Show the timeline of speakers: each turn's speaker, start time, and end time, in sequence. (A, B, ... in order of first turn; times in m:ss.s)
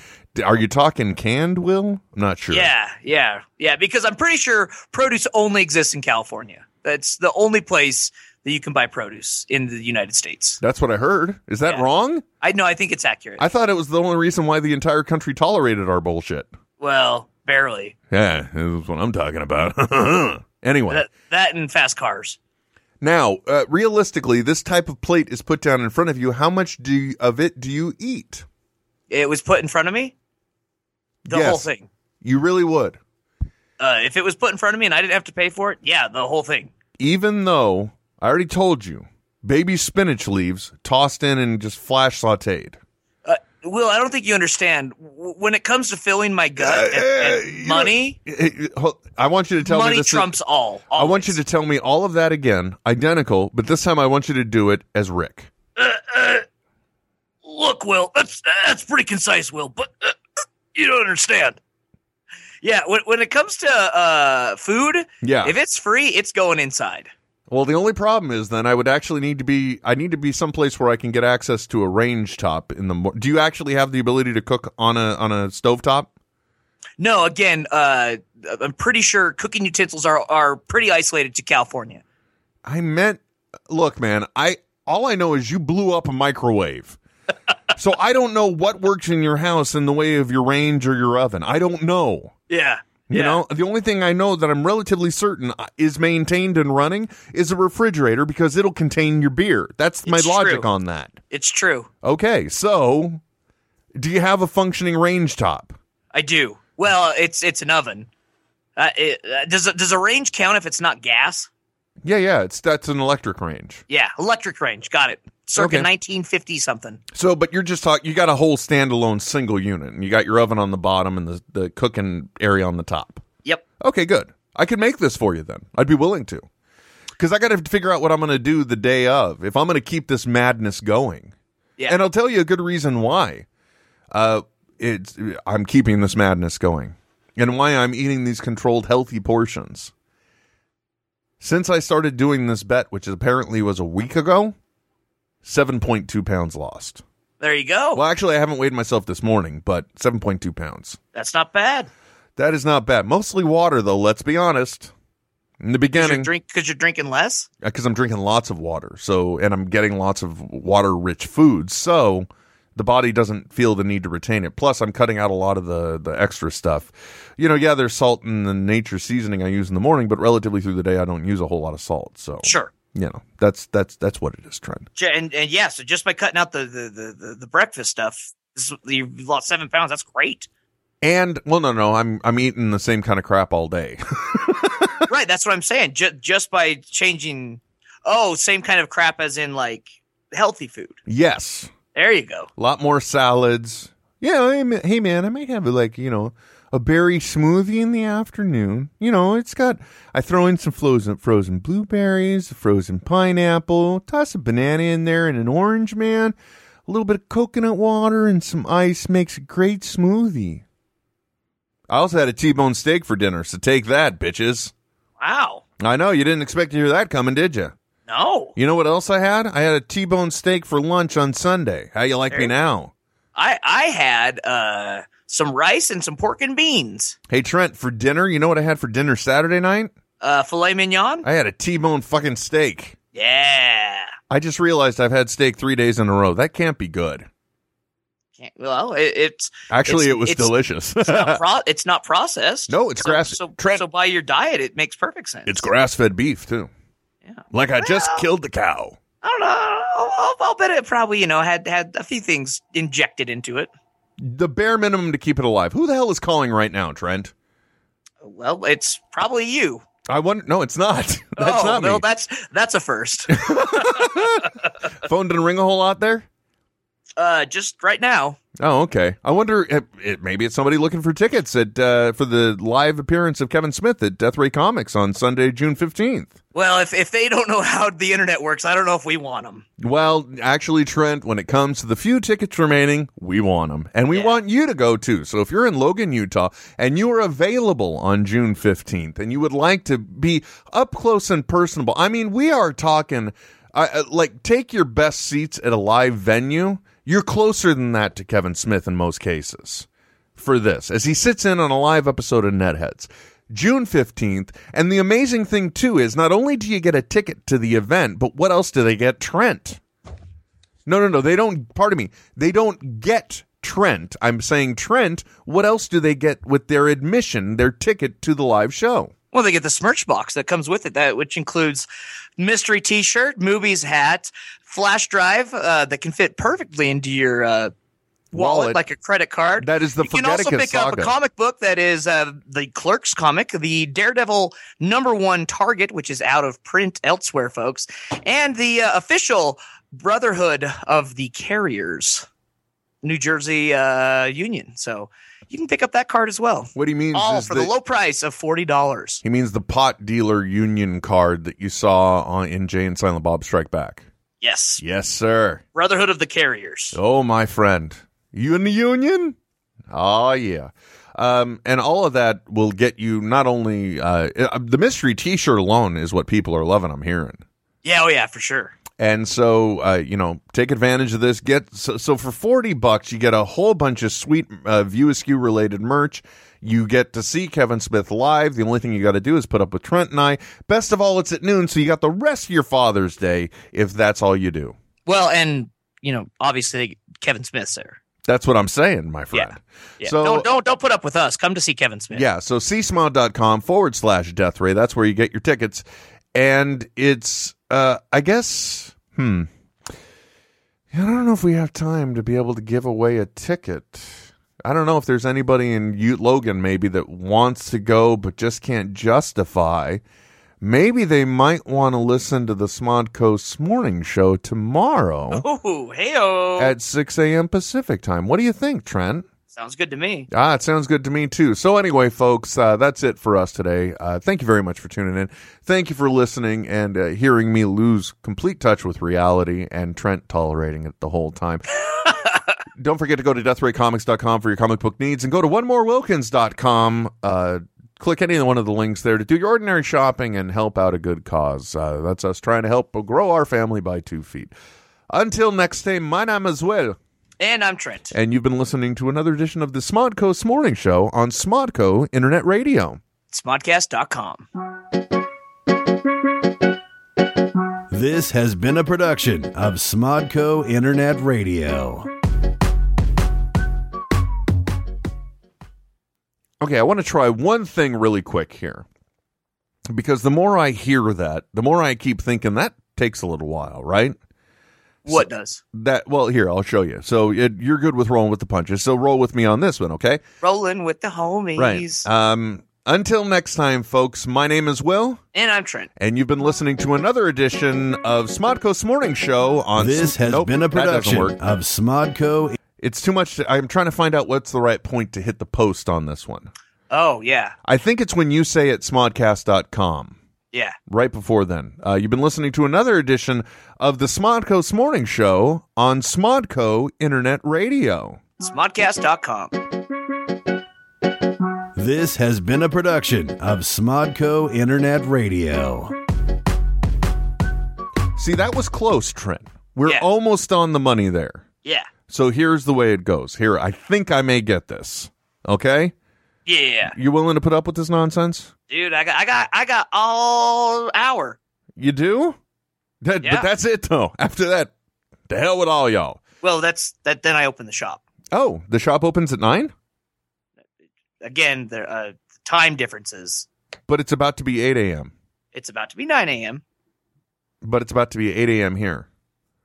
0:00.3-0:02.7 A
0:02.5-0:10.6 B
0:10.6-0:12.2 A
0:12.4-0:13.4 B
0:13.4-0:16.5 A
0:16.8-0:17.9 B
0:18.1-0:21.0 A
0:20.9-0:22.4 B
0:23.0-0:28.4 A
0:29.1-0:30.1 B
0:31.2-0:31.7 A
0:31.3-0:31.9 B
0:32.2-0:33.0 A
0:33.8-0:36.7 B
0:37.0-0:42.8 A
0:43.2-0:48.2 B
0:46.6-0:50.3 A
0:49.6-0:51.4 B
0:50.9-0:55.5 A
0:55.8-0:56.4 B
0:57.4-1:00.2 B
1:00.7-1:01.6 B
1:02.6-1:07.1 B
1:05.2-1:05.5 A
1:07.5-1:16.1 A
1:17.0-1:22.0 B
1:22.6-1:27.0 A
1:27.7-1:32.3 A
1:32.5-1:33.4 B
1:33.1-1:41.2 A
1:40.0-1:40.7 B
1:41.3-1:41.9 B
1:42.0-1:43.2 A
1:44.0-1:45.7 A
1:46.1-1:48.1 B
1:48.8-1:51.5 B
1:52.0-1:53.8 A
1:53.9-1:57.0 B
1:55.5-1:55.9 A
1:57.1-2:03.2 A
2:03.8-2:06.4 A
2:07.2-2:11.3 A
2:11.9-2:13.4 A
2:14.1-2:19.9 A
2:21.4-2:24.5 A
2:25.4-2:27.0 A
2:27.4-2:28.0 B
2:27.9-2:31.0 A
2:31.1-2:31.9 B
2:32.4-2:34.9 A
2:35.6-2:36.3 A
2:35.9-2:37.5 B
2:37.6-2:54.9 A
2:52.4-2:52.7 B
2:55.0-3:00.5 B
3:01.0-3:05.0 A
3:05.1-3:11.0 B
3:11.1-3:11.7 A
3:11.9-3:12.5 B
3:12.6-3:26.3 A
3:26.9-3:30.6 A
3:31.9-3:34.7 A
3:35.2-3:35.6 B
3:35.8-3:37.7 A
3:38.1-3:38.5 B
3:38.6-3:42.9 A
3:43.3-3:47.2 B
3:47.3-3:49.9 A
3:50.2-3:51.2 B
3:51.2-3:53.0 A
3:53.1-3:54.1 B
3:54.3-3:57.3 A
3:58.4-4:05.7 B
3:59.7-4:01.4 A
4:02.7-4:03.8 A
4:05.4-4:06.7 A
4:07.2-4:08.3 B
4:07.5-4:09.0 A
4:09.2-4:13.7 B
4:14.2-4:17.3 A
4:18.2-4:19.8 B
4:20.1-4:22.0 A
4:21.4-4:24.5 B
4:23.3-4:26.2 A
4:27.2-4:28.4 B
4:28.6-4:36.3 A
4:36.5-4:39.6 B
4:39.8-5:09.8 A
4:44.1-4:44.4 B
5:10.8-5:19.1 A
5:19.3-5:21.9 B
5:22.4-5:27.7 B
5:28.3-5:42.2 B
5:28.3-5:28.8 A
5:29.6-5:31.1 A
5:43.0-5:49.2 B
5:46.8-5:47.7 A
5:49.2-5:54.0 A
5:54.4-5:54.8 B
5:54.8-5:55.6 A
5:55.7-5:57.0 B
5:56.9-5:59.4 A
5:59.9-6:07.4 A
6:07.8-6:08.7 B
6:09.0-6:24.8 A
6:25.0-6:28.0 B
6:28.2-6:30.5 A
6:29.3-6:32.2 B
6:32.1-6:35.8 A
6:36.3-6:39.5 A
6:40.9-6:50.0 A
6:50.6-6:55.4 A
6:55.3-6:56.7 B
6:56.6-6:59.2 A
6:59.5-7:00.3 B
7:00.3-7:11.6 A
7:12.8-7:24.5 A
7:25.1-7:27.0 A
7:27.4-7:28.1 B
7:28.1-7:33.0 A
7:33.3-7:34.4 B
7:37.9-7:42.1 C
7:46.6-7:48.8 A
7:49.9-7:54.2 A
7:55.0-8:00.2 A
7:55.1-7:55.6 B
8:00.4-8:02.1 B
8:01.6-8:05.2 A
8:05.3-8:05.9 B
8:06.0-8:11.3 A
8:09.8-8:12.5 C
8:12.8-8:16.5 A
8:16.9-8:17.5 B
8:17.6-8:20.2 A
8:20.9-8:28.2 A
8:28.4-8:29.6 B
8:31.8-8:35.9 C
8:38.2-8:41.4 A
8:42.1-8:45.9 A
8:46.4-8:46.9 B
8:46.9-8:48.5 A
8:48.7-8:51.4 B
8:51.8-8:52.4 A
8:53.0-8:54.7 A
8:53.2-8:53.5 B
8:55.3-8:56.2 A
8:56.4-8:58.0 B
8:58.3-8:59.7 A
9:01.2-9:03.5 B
9:03.9-9:05.1 A
9:05.5-9:06.6 B
9:07.6-9:09.1 A